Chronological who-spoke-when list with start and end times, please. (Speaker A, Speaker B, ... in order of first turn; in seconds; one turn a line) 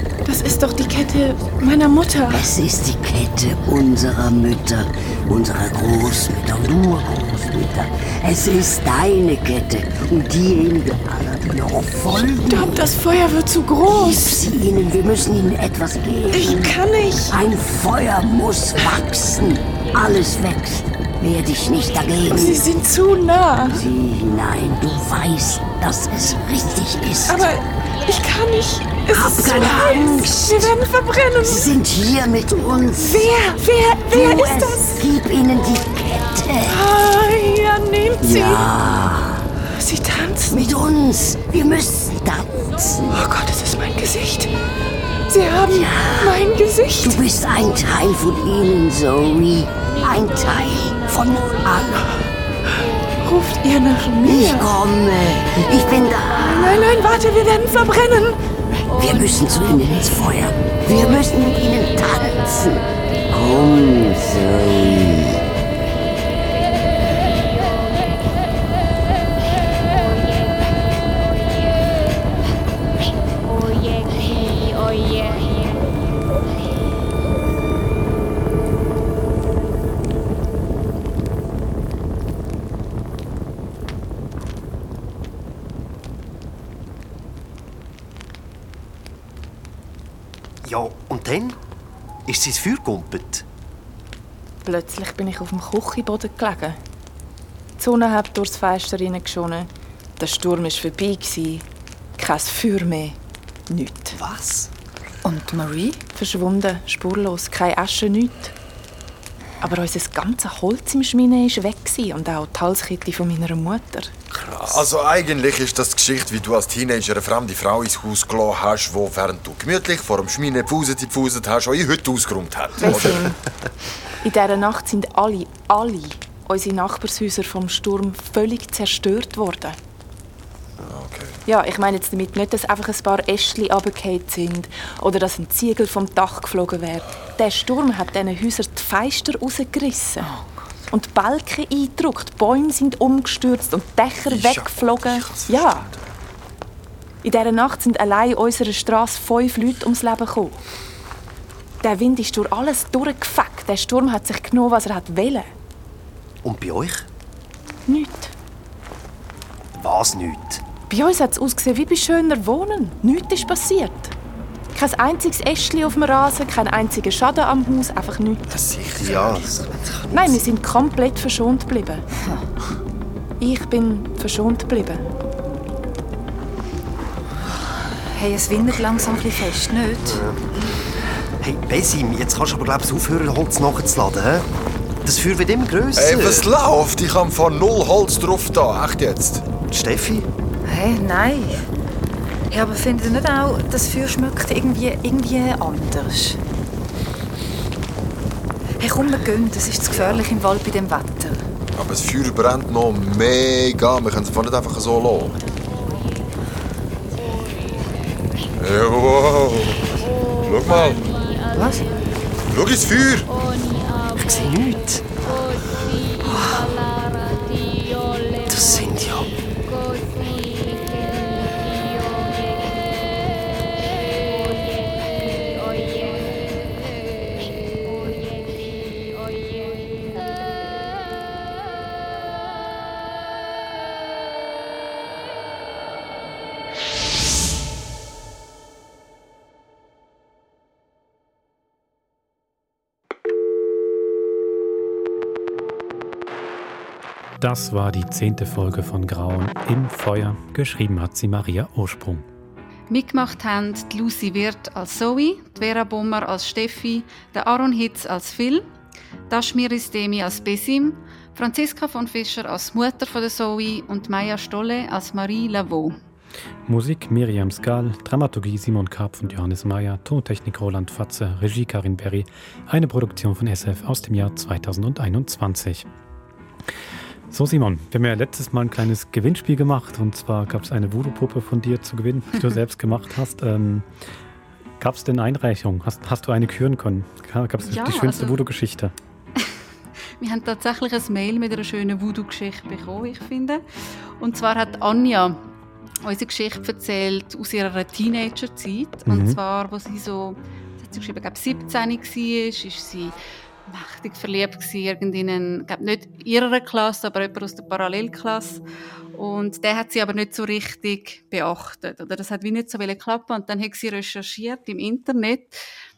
Speaker A: 0.2-2.5
Speaker B: 2.3-12.9
Speaker A: 12.2-14.4
Speaker B: 13.8-16.8
Speaker A: 16.3-17.4
Speaker B: 17.3-22.7
Speaker A: 22.2-23.8
Speaker B: 23.6-27.5
Speaker A: 27.3-31.7
Speaker B: 29.1-30.8
Speaker B: 31.3-33.3
Speaker A: 33.0-35.0
Speaker B: 34.1-36.8
Speaker A: 36.7-38.6
Speaker B: 38.2-39.5
Speaker A: 39.8-40.8
Speaker B: 40.5-43.2
Speaker A: 43.1-44.5
Speaker A: 45.3-47.2
Speaker B: 45.7-46.4
Speaker B: 47.0-52.1
Speaker A: 53.2-54.7
Speaker B: 54.2-56.9
Speaker A: 56.3-58.4
Speaker B: 58.9-65.4
Speaker C: 90.6-91.6
Speaker C: 92.3-93.4
Speaker A: 94.6-96.8
Speaker A: 97.8-101.6
Speaker A: 102.2-103.2
Speaker A: 103.7-104.2
Speaker C: 104.1-104.7
Speaker D: 105.2-106.0
Speaker A: 106.1-108.5
Speaker A: 109.6-114.1
Speaker C: 114.4-114.9
Speaker E: 114.5-123.3
Speaker A: 122.8-123.4
Speaker A: 124.2-129.8
Speaker E: 130.8-131.4
Speaker A: 131.4-140.3
Speaker A: 140.9-145.9
Speaker E: 144.2-146.0
Speaker A: 147.2-150.6
Speaker A: 151.8-155.5
Speaker C: 156.4-157.1
Speaker A: 157.9-158.3
Speaker C: 159.7-160.6
Speaker A: 160.9-164.1
Speaker A: 164.7-168.4
Speaker E: 168.6-169.4
Speaker C: 168.7-170.4
Speaker A: 170.1-172.0
Speaker A: 173.4-175.1
Speaker D: 178.1-180.2
Speaker E: 178.5-179.2
Speaker C: 179.9-180.4
Speaker C: 181.4-184.4
Speaker C: 185.0-186.5
Speaker E: 185.9-189.5
Speaker C: 189.6-190.3
Speaker D: 190.6-191.7
Speaker D: 192.5-196.4
Speaker D: 198.8-201.4
Speaker E: 201.8-205.4
Speaker E: 208.6-211.0
Speaker D: 211.5-211.9
Speaker E: 212.5-213.3
Speaker C: 214.1-215.2
Speaker C: 216.2-216.7
Speaker C: 218.5-219.3
Speaker F: 247.4-252.2
Speaker G: 252.9-258.6
Speaker G: 259.3-265.9
Speaker F: 266.6-275.9
Speaker F: 277.3-283.9
Speaker F: 284.8-288.9
Speaker G: 287.6-288.4
Speaker G: 290.2-293.6
Speaker G: 294.2-295.4
Speaker G: 296.0-303.1
Speaker F: 299.1-299.4
Speaker G: 303.7-308.6
Speaker G: 309.2-315.5